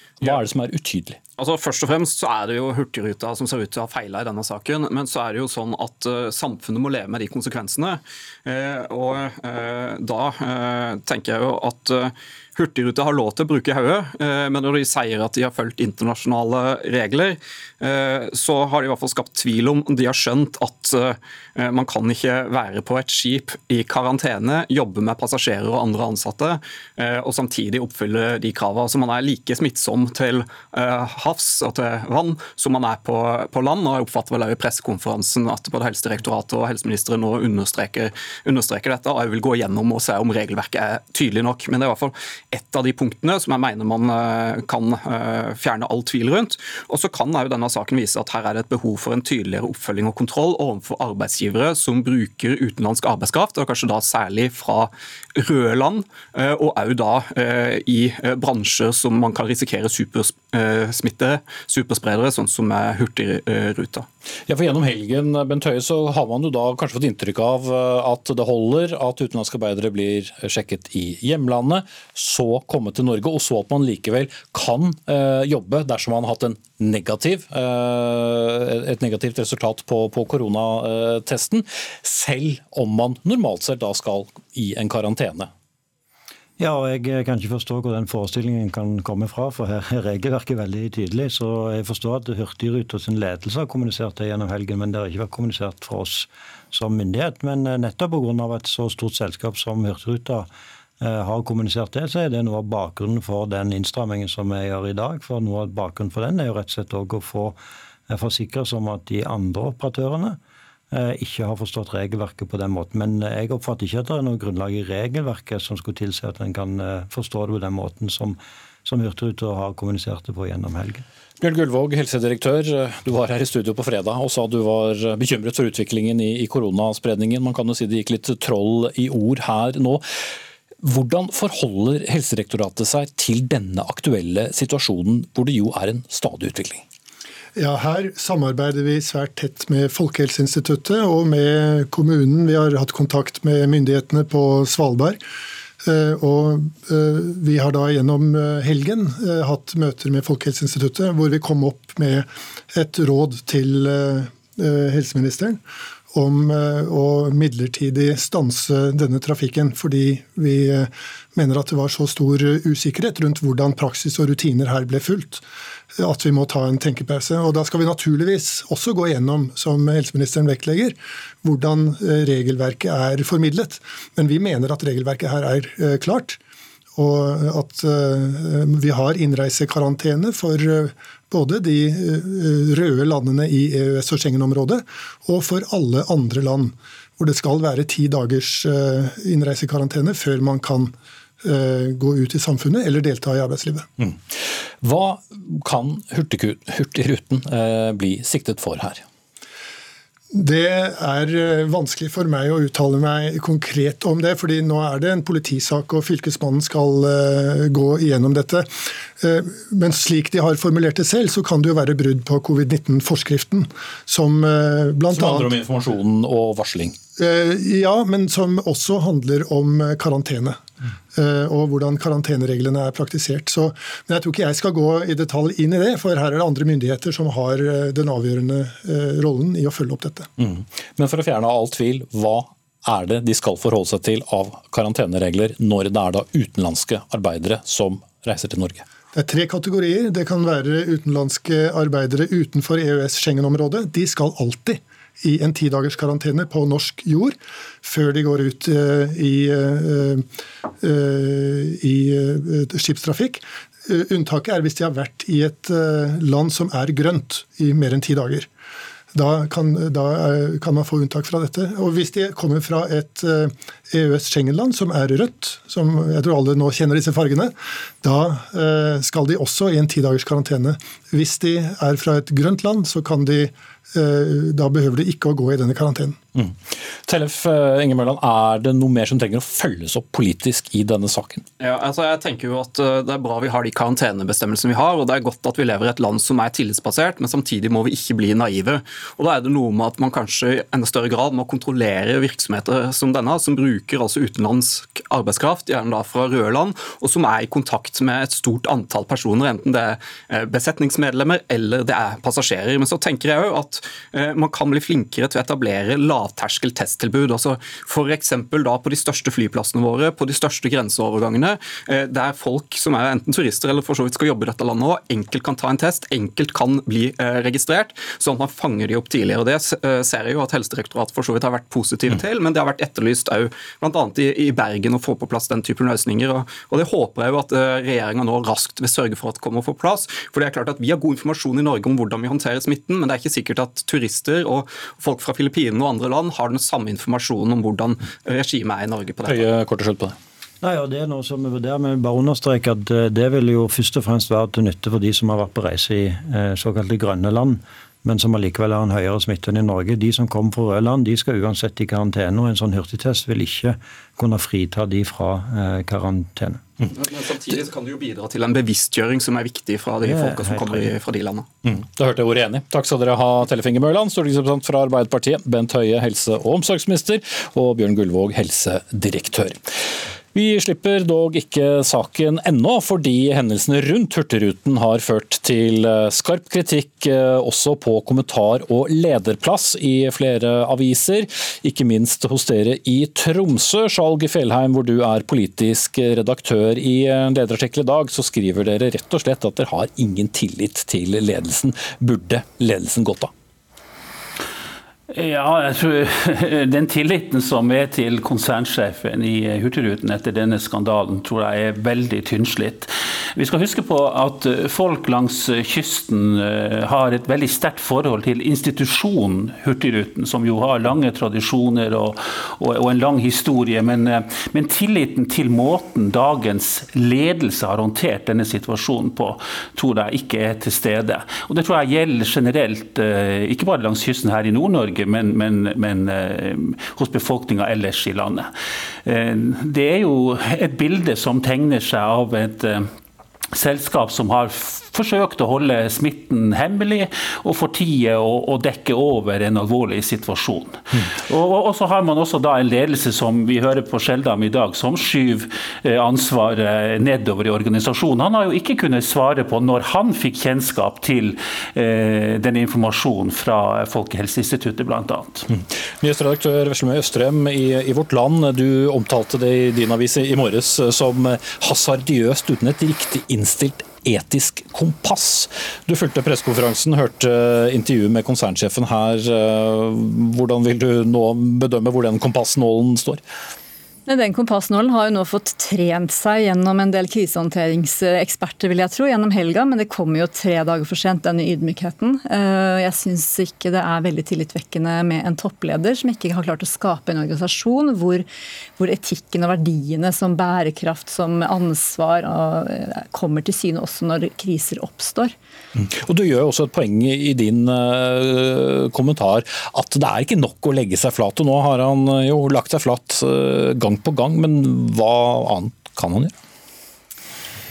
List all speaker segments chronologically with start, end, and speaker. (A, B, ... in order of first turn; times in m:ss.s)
0:00.2-0:01.2 A
0:01.4-1:04.0 B
1:04.5-1:25.5 A
1:26.6-1:40.5 C
1:41.0-1:47.6 C
1:48.1-1:50.4 C
1:50.9-2:01.0 C
2:01.4-2:10.0 A
2:10.8-2:16.8 A
2:17.6-2:25.2 D
2:25.8-2:35.6 D
2:36.1-2:45.4 D
2:45.9-2:56.4 D
2:57.0-3:13.9 D
3:14.0-3:19.0 A
3:20.3-3:35.5 D
3:35.1-3:37.0 A
3:37.2-3:40.6 D
3:41.1-3:50.3 D
3:50.4-3:58.8 A
3:59.1-4:10.2 D
4:10.8-4:18.5 D
4:19.1-4:36.2 D
4:36.4-4:41.4 A
4:41.6-5:39.5 B
5:39.2-5:40.2 A
5:40.6-5:56.6 C
5:56.9-6:01.4 B
6:00.0-6:00.9 C
6:01.6-6:09.8 A
6:10.3-6:33.3 A
6:35.1-7:08.5 E
7:09.0-7:12.9 E
7:13.5-7:35.5 E
7:35.5-7:53.2 A
7:54.1-8:08.2 F
8:08.8-8:15.3 F
8:15.8-8:26.3 A